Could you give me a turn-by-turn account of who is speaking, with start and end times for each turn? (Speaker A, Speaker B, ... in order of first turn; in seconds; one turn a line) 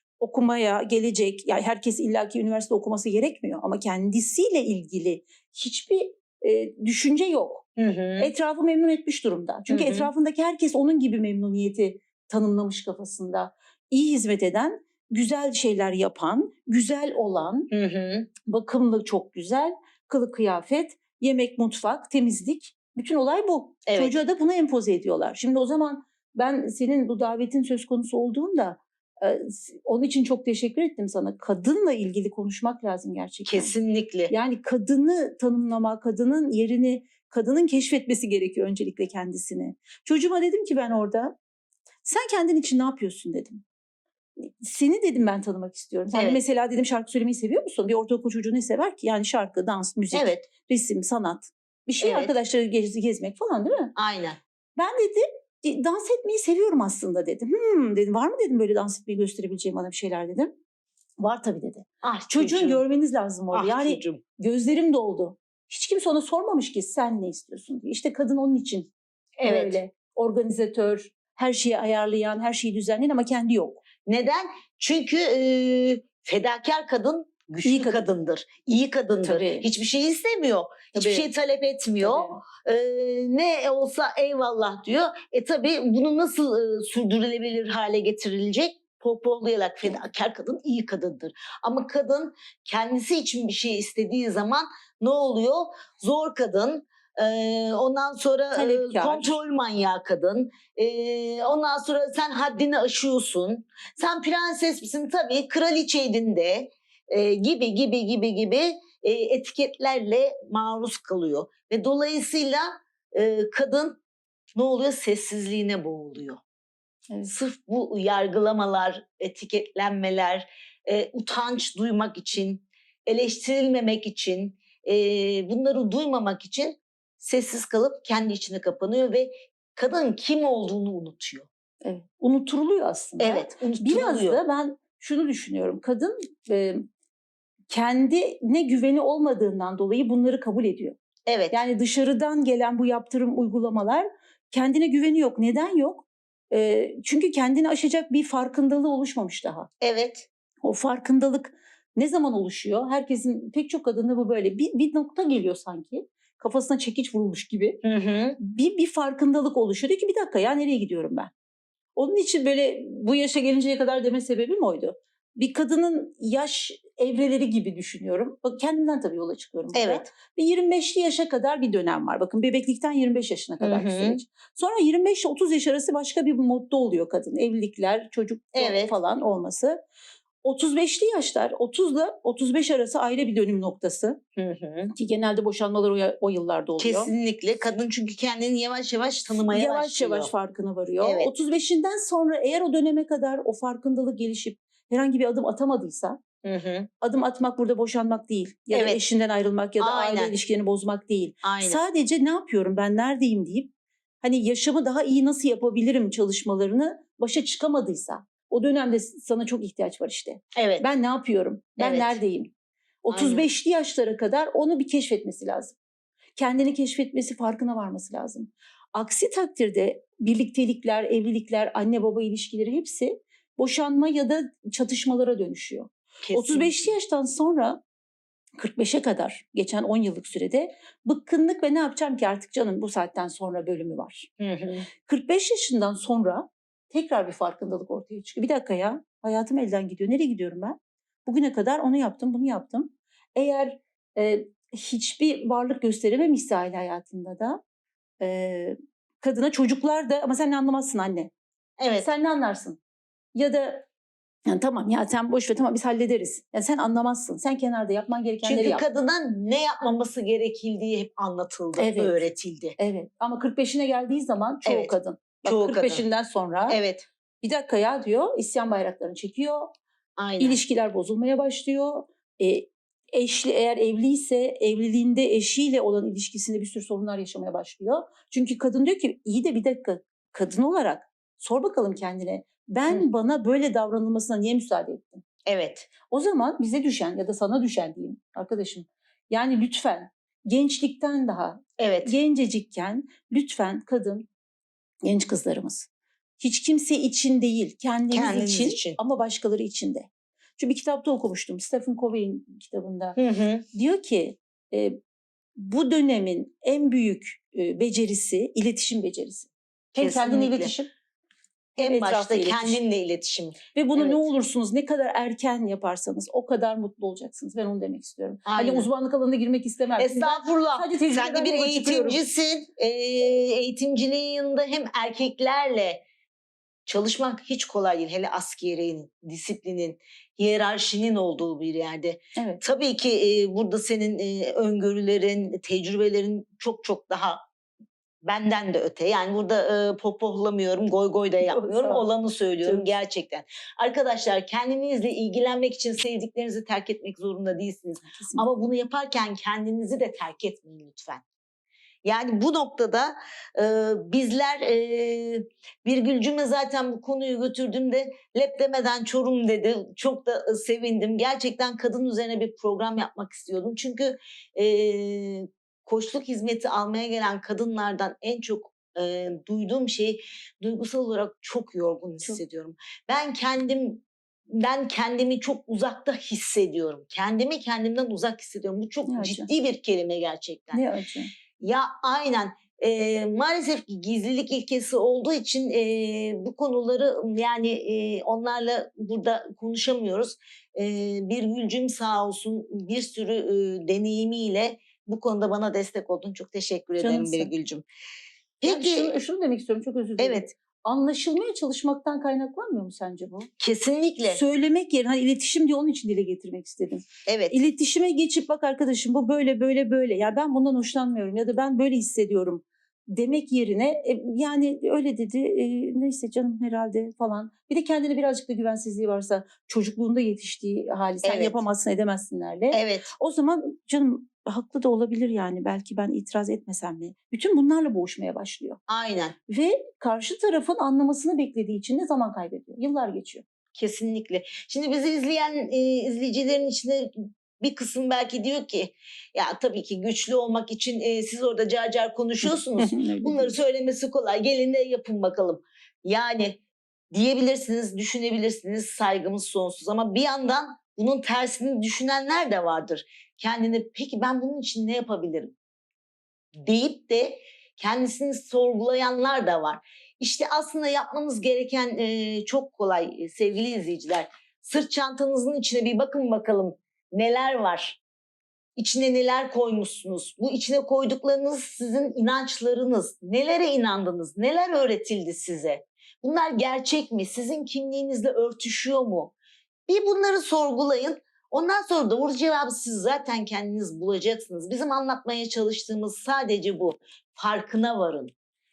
Speaker A: 0.2-7.7
Speaker B: 7.8-8.3
Speaker A: 8.2-17.7
Speaker B: 9.7-10.1
Speaker B: 17.7-18.3
Speaker A: 18.4-33.7
Speaker B: 23.9-24.1
Speaker B: 33.5-34.3
Speaker A: 34.3-41.4
Speaker A: 42.0-43.6
Speaker A: 44.4-53.9
Speaker B: 46.1-46.4
Speaker B: 50.1-50.5
Speaker B: 52.0-52.3
Speaker B: 54.0-54.4
Speaker A: 54.8-60.5
Speaker A: 61.2-68.9
Speaker B: 62.0-62.8
Speaker B: 63.5-64.2
Speaker B: 69.4-69.8
Speaker A: 69.4-73.8
Speaker B: 74.0-114.0
Speaker A: 77.6-78.0
Speaker A: 79.2-79.7
Speaker A: 80.9-81.3
Speaker A: 82.0-82.4
Speaker A: 98.5-99.3
Speaker B: 114.5-116.4
Speaker B: 117.2-131.5
Speaker A: 131.8-136.8
Speaker B: 133.2-134.4
Speaker A: 137.7-141.0
Speaker B: 141.3-141.6
Speaker A: 141.5-149.7
Speaker B: 149.8-150.3
Speaker A: 150.6-157.8
Speaker B: 157.8-158.4
Speaker A: 158.4-161.3
Speaker A: 161.9-179.8
Speaker B: 169.7-170.1
Speaker B: 173.6-174.2
Speaker B: 178.6-178.9
Speaker A: 180.4-184.2
Speaker B: 184.4-184.9
Speaker A: 184.9-187.1
Speaker B: 186.8-190.3
Speaker A: 189.4-196.2
Speaker B: 191.0-191.3
Speaker B: 196.4-196.9
Speaker A: 197.0-212.5
Speaker B: 198.7-199.0
Speaker B: 199.8-200.3
Speaker B: 201.4-201.8
Speaker B: 210.6-210.9
Speaker B: 211.8-212.2
Speaker A: 213.0-215.8
Speaker B: 213.1-213.5
Speaker A: 216.3-227.8
Speaker B: 226.3-226.8
Speaker A: 228.6-234.3
Speaker B: 234.4-234.9
Speaker A: 235.0-247.6
Speaker A: 248.2-251.3
Speaker B: 251.8-252.1
Speaker A: 252.0-252.8
Speaker A: 253.3-253.8
Speaker A: 254.5-258.8
Speaker B: 258.4-262.8
Speaker A: 261.8-262.2
Speaker A: 262.8-266.8
Speaker B: 264.6-266.0
Speaker B: 266.7-267.1
Speaker A: 267.4-269.7
Speaker B: 270.2-270.6
Speaker A: 270.4-285.2
Speaker B: 285.4-285.9
Speaker A: 286.1-294.3
Speaker B: 291.8-292.1
Speaker A: 295.0-295.9
Speaker A: 296.4-303.2
Speaker B: 298.1-299.0
Speaker B: 303.2-303.6
Speaker A: 303.7-305.0
Speaker A: 305.6-310.9
Speaker B: 309.9-310.7
Speaker A: 311.8-312.8
Speaker B: 311.8-314.3
Speaker A: 313.7-322.2
Speaker B: 318.4-318.9
Speaker B: 320.0-326.0
Speaker B: 326.9-337.4
Speaker B: 338.2-351.2
Speaker A: 341.4-342.0
Speaker A: 348.1-348.5
Speaker B: 352.0-380.8
Speaker A: 379.1-379.5
Speaker A: 380.7-381.3
Speaker B: 381.6-397.8
Speaker A: 397.0-397.5
Speaker B: 398.6-399.1
Speaker A: 398.6-403.5
Speaker B: 400.2-400.5
Speaker B: 403.6-404.4
Speaker A: 404.3-412.6
Speaker B: 407.2-407.6
Speaker A: 413.1-428.8
Speaker B: 421.2-421.6
Speaker B: 422.7-423.1
Speaker B: 428.9-429.3
Speaker A: 429.5-433.4
Speaker B: 433.8-446.6
Speaker A: 442.4-443.5
Speaker B: 447.1-455.6
Speaker B: 456.6-468.0
Speaker B: 468.8-479.3
Speaker B: 479.9-488.3